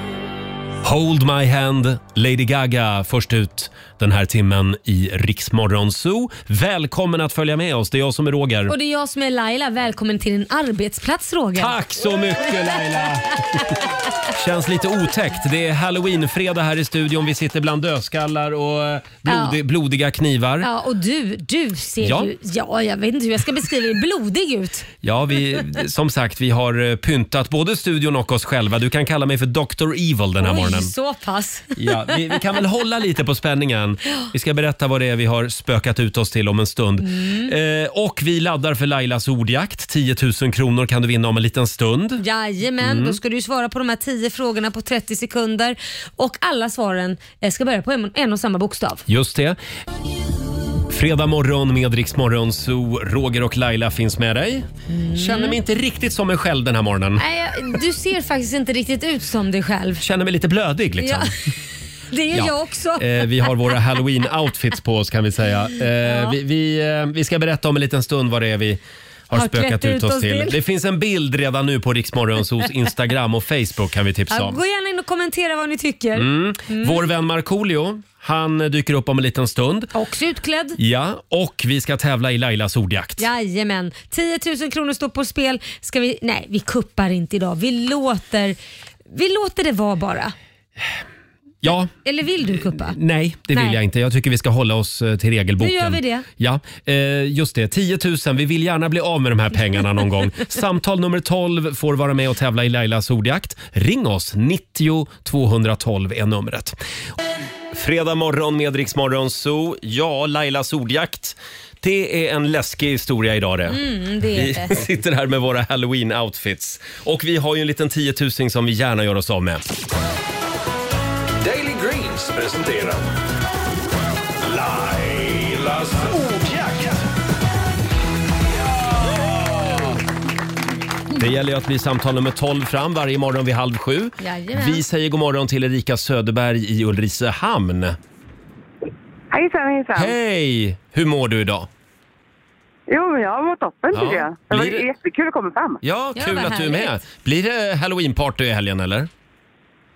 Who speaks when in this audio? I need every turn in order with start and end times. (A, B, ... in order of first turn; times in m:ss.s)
0:00.8-0:08.7 A
0:08.7-0:11.8 B
0:11.6-0:13.6 A
0:14.3-0:20.7 A
0:19.3-0:19.6 B
0:20.6-0:24.9 B
0:22.0-0:22.3 A
0:25.0-0:30.9 A
0:30.4-0:32.4 B
0:31.8-0:42.2 A
0:37.0-0:37.5 B
0:42.2-0:49.0 B
0:42.8-0:43.2 A
0:49.1-0:49.6 A
0:50.9-0:57.2 A
0:54.9-0:55.6 B
0:57.2-1:00.0 B
1:00.0-1:01.3 A
1:01.0-1:01.3 B
1:02.1-1:03.5 B
1:02.3-1:14.6 A
1:06.0-1:06.4 B
1:09.3-1:10.6 B
1:14.3-1:17.0 B
1:16.2-1:19.9 A
1:19.9-1:20.8 B
1:20.8-1:23.2 A
1:23.2-1:28.6 B
1:29.1-1:30.3 B
1:31.6-1:31.9 A
1:32.0-1:33.0 B
1:32.5-1:46.8 A
1:33.5-1:33.8 B
1:35.6-1:36.3 B
1:47.7-1:53.8 A
1:53.7-1:54.8 B
1:54.3-1:59.6 A
2:01.4-2:03.0 C
2:04.5-2:07.0 C
2:11.2-2:18.0 A
2:14.2-2:14.8 B
2:19.3-2:20.2 D
2:20.0-2:21.7 A
2:22.9-2:25.8 D
2:23.9-2:24.9 A
2:25.8-2:29.1 A
2:26.2-2:27.0 B